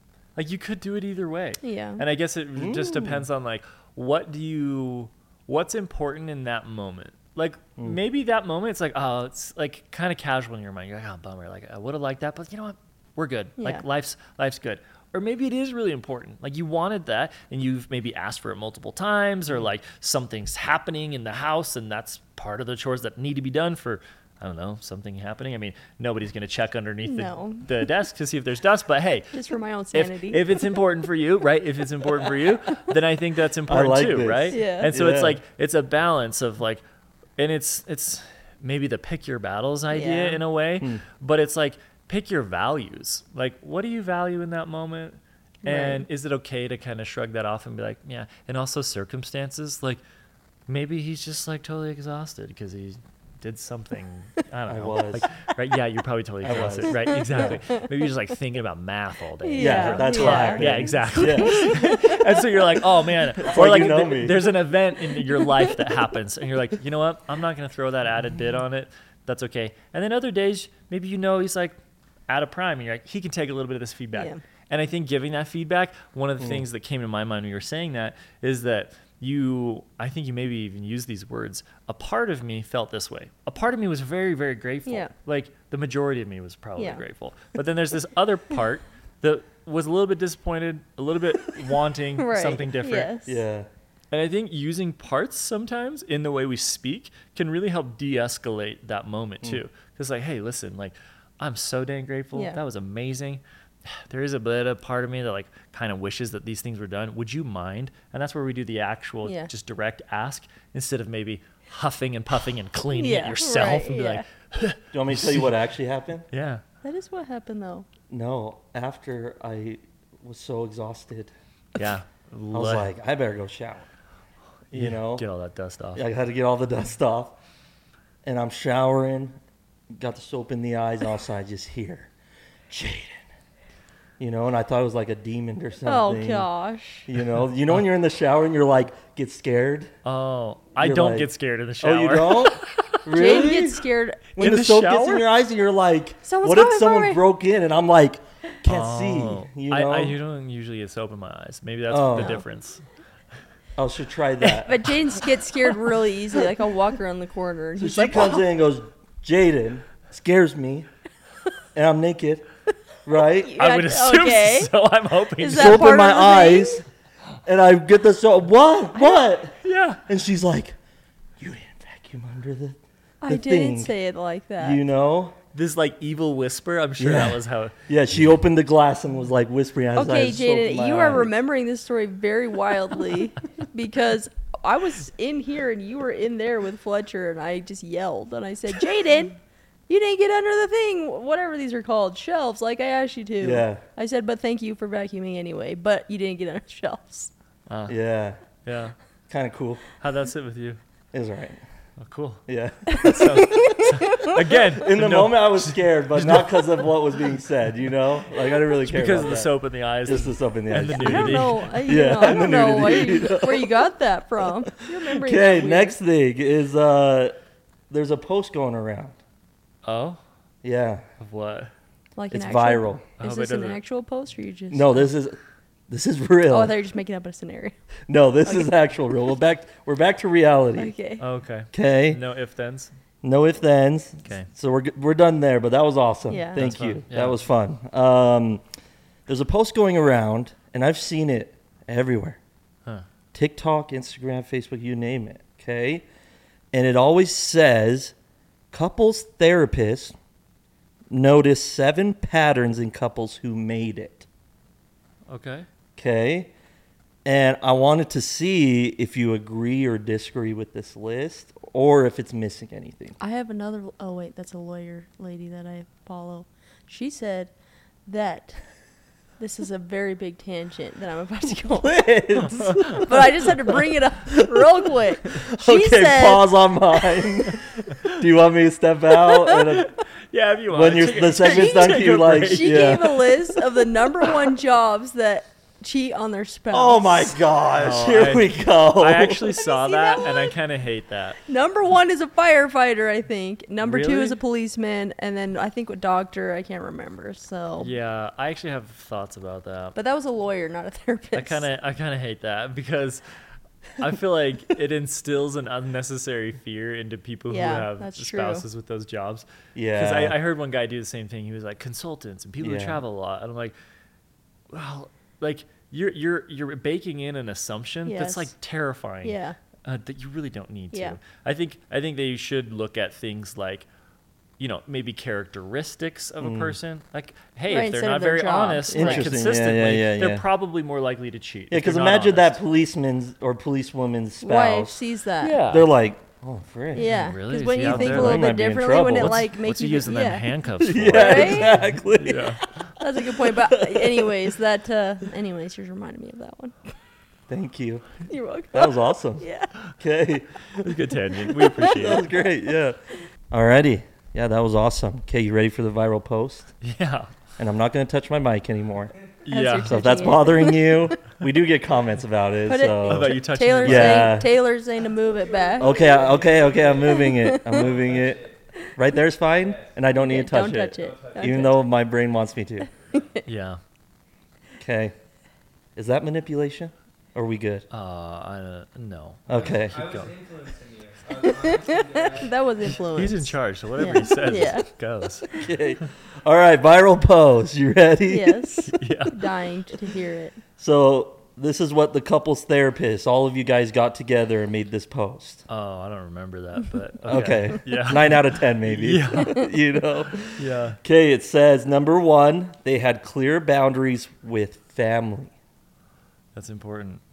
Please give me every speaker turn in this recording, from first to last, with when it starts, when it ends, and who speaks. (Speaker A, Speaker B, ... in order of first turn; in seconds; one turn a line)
Speaker A: 0.4-36.8
Speaker B: 1.6-2.0
Speaker C: 2.6-3.3
Speaker B: 13.6-13.8
Speaker B: 27.1-27.9
Speaker B: 29.3-30.6
Speaker C: 33.7-35.4
Speaker B: 34.5-34.9
Speaker A: 37.4-50.0
Speaker B: 39.9-40.4
Speaker B: 45.6-46.1
Speaker A: 50.7-71.7
Speaker C: 54.7-55.2
Speaker C: 56.4-57.6
Speaker B: 57.0-57.8
Speaker B: 59.4-60.7
Speaker C: 59.6-61.7
Speaker B: 61.2-62.2
Speaker C: 63.4-64.5
Speaker A: 72.3-93.1
Speaker B: 74.1-74.4
Speaker C: 76.4-76.6
Speaker B: 84.9-85.1
Speaker B: 86.8-87.0
Speaker B: 92.2-93.4
Speaker C: 93.2-93.7
Speaker A: 94.1-115.6
Speaker B: 112.9-114.2
Speaker C: 114.9-116.3
Speaker A: 116.3-116.6
Speaker B: 116.8-117.9
Speaker C: 118.1-121.3
Speaker A: 121.8-122.9
Speaker C: 122.5-123.9
Speaker C: 124.7-125.2
Speaker A: 124.7-126.0
Speaker C: 125.9-127.4
Speaker C: 128.2-129.4
Speaker C: 129.9-132.1
Speaker C: 132.7-133.2
Speaker C: 134.2-136.5
Speaker B: 135.8-137.1
Speaker C: 137.1-139.9
Speaker A: 140.0-143.0
Speaker C: 140.8-143.8
Speaker B: 143.1-144.2
Speaker A: 144.4-145.2
Speaker C: 144.4-150.2
Speaker B: 146.2-147.2
Speaker A: 148.7-152.8
Speaker C: 151.9-152.4
Speaker C: 153.8-154.8
Speaker B: 154.5-158.4
Speaker C: 157.8-160.9
Speaker C: 161.7-162.4
Speaker C: 163.1-163.6
Speaker B: 163.3-164.7
Speaker A: 163.6-165.9
Speaker B: 165.4-166.8
Speaker C: 165.5-166.8
Speaker C: 167.4-170.8
Speaker B: 168.9-169.2
Speaker A: 169.6-170.0
Speaker C: 171.4-173.9
Speaker B: 173.2-174.8
Speaker C: 174.6-175.4
Speaker A: 175.5-177.7
Speaker C: 177.0-181.3
Speaker B: 179.9-189.4
Speaker B: 189.9-197.3
Speaker C: 193.4-193.8
Speaker A: 197.7-197.9
Speaker C: 197.9-198.4
Speaker A: 198.6-198.9
Speaker C: 199.3-199.8
Speaker A: 200.0-200.8
Speaker C: 201.1-201.6
Speaker A: 202.0-206.7
Speaker C: 202.5-203.7
Speaker B: 202.9-204.4
Speaker C: 204.7-209.5
Speaker A: 208.8-211.7
Speaker C: 210.1-213.9
Speaker B: 210.9-215.9
Speaker C: 214.4-217.3
Speaker C: 217.9-219.2
Speaker A: 219.8-220.2
Speaker C: 220.6-221.1
Speaker A: 221.2-221.7
Speaker B: 222.2-225.1
Speaker C: 222.3-223.1
Speaker A: 223.2-223.8
Speaker C: 224.7-225.4
Speaker C: 225.9-226.7
Speaker B: 226.5-227.8
Speaker C: 228.1-230.9
Speaker B: 230.8-231.2
Speaker A: 231.2-232.9
Speaker C: 231.7-232.2
Speaker C: 233.2-238.6
Speaker B: 236.3-236.6
Speaker A: 236.6-237.4
Speaker C: 239.3-242.4
Speaker C: 243.3-246.1
Speaker C: 246.7-248.1
Speaker C: 248.7-250.1
Speaker C: 251.1-254.3
Speaker A: 255.3-255.7
Speaker C: 256.0-256.5
Speaker C: 257.2-263.2
Speaker B: 263.2-267.5
Speaker B: 268.1-268.6
Speaker B: 269.4-277.2
Speaker C: 271.6-273.5
Speaker A: 272.6-272.9
Speaker C: 274.3-274.7
Speaker C: 275.3-279.9
Speaker A: 279.5-283.5
Speaker C: 280.7-283.2
Speaker B: 281.4-287.4
Speaker C: 286.7-289.5
Speaker A: 287.7-291.4
Speaker B: 289.6-290.6
Speaker B: 291.4-297.9
Speaker A: 293.8-294.4
Speaker A: 297.8-299.9
Speaker B: 299.9-301.6
Speaker A: 301.3-303.2
Speaker A: 304.0-313.7
Speaker B: 307.5-308.6
Speaker C: 309.7-310.4
Speaker C: 312.6-313.0
Speaker A: 314.7-323.9
Speaker B: 318.1-318.5
Speaker B: 319.2-319.6
Speaker B: 320.9-321.2
Speaker A: 324.6-332.6
Speaker C: 326.4-326.8
Speaker B: 327.7-329.3
Speaker C: 328.9-330.4
Speaker C: 331.7-335.0
Speaker B: 334.4-335.6
Speaker A: 335.4-335.9
Speaker C: 335.6-337.2
Speaker B: 336.9-340.5
Speaker A: 337.0-342.6
Speaker C: 337.8-339.5
Speaker C: 340.8-342.6
Speaker B: 341.1-341.8
Speaker B: 343.0-346.8
Speaker C: 343.3-344.5
Speaker C: 347.5-348.1
Speaker B: 348.3-349.7
Speaker C: 348.7-349.5
Speaker C: 350.0-353.0
Speaker A: 350.8-352.3
Speaker C: 353.5-356.7
Speaker A: 356.8-357.3
Speaker C: 357.6-359.1
Speaker A: 359.4-360.4
Speaker B: 359.5-361.2
Speaker C: 359.8-364.5
Speaker B: 362.6-365.9
Speaker A: 363.1-364.4
Speaker D: 365.3-368.6
Speaker C: 365.8-368.4
Speaker B: 367.0-367.9
Speaker C: 368.9-372.9
Speaker D: 369.5-370.0
Speaker B: 370.1-371.8
Speaker D: 370.9-371.8
Speaker D: 373.0-373.3
Speaker B: 373.1-373.4
Speaker A: 373.4-373.8
Speaker C: 374.8-375.1
Speaker C: 375.9-377.9
Speaker A: 377.9-380.3
Speaker C: 379.5-380.0
Speaker D: 379.6-382.9
Speaker B: 381.4-384.9
Speaker A: 382.9-385.6
Speaker C: 385.6-388.8
Speaker B: 388.3-390.6
Speaker A: 388.9-389.4
Speaker C: 390.8-395.6
Speaker A: 395.7-399.7
Speaker C: 397.3-405.5
Speaker A: 400.4-401.0
Speaker A: 406.6-407.2